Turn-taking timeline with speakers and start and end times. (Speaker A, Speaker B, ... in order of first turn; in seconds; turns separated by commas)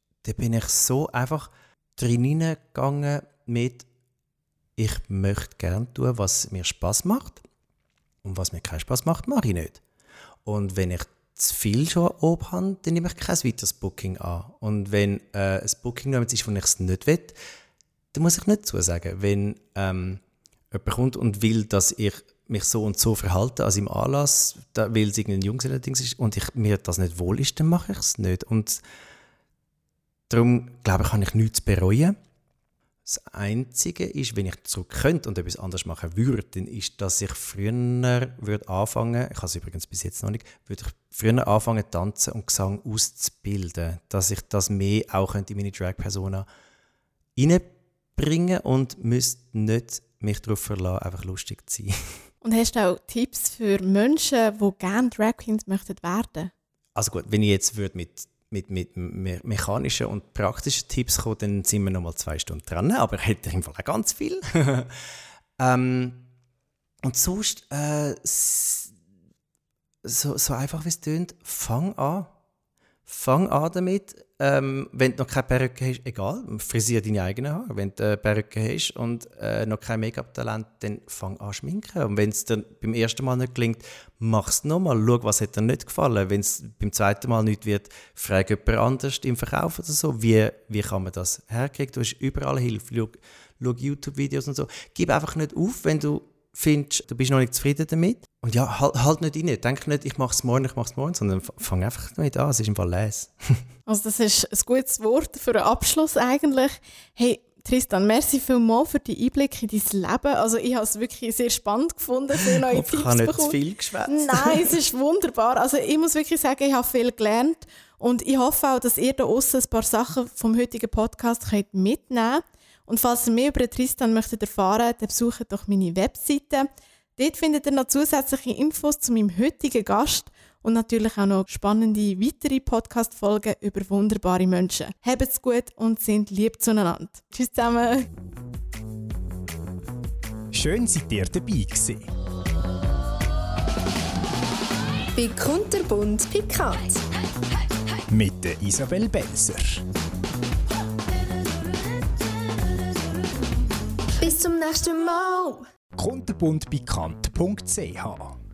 Speaker A: 0.2-3.9, Speaker A: 4.8-7.4, Speaker A: 8.2-9.8, Speaker A: 10.4-17.4, Speaker A: 18.1-28.8, Speaker A: 30.3-32.1, Speaker A: 33.0-46.5, Speaker A: 47.4-51.9, Speaker B: 52.4-56.5, Speaker A: 56.9-64.9, Speaker A: 65.6-66.2, Speaker A: 67.0-68.9, Speaker A: 70.0-72.3, Speaker A: 73.0-103.6, Speaker B: 103.9-113.5, Speaker A: 112.5-114.8, Speaker B: 114.1-138.1, Speaker C: 140.5-142.1, Speaker D: 145.1-147.0, Speaker C: 148.1-149.8, Speaker D: 154.2-155.7, Speaker C: 156.0-158.3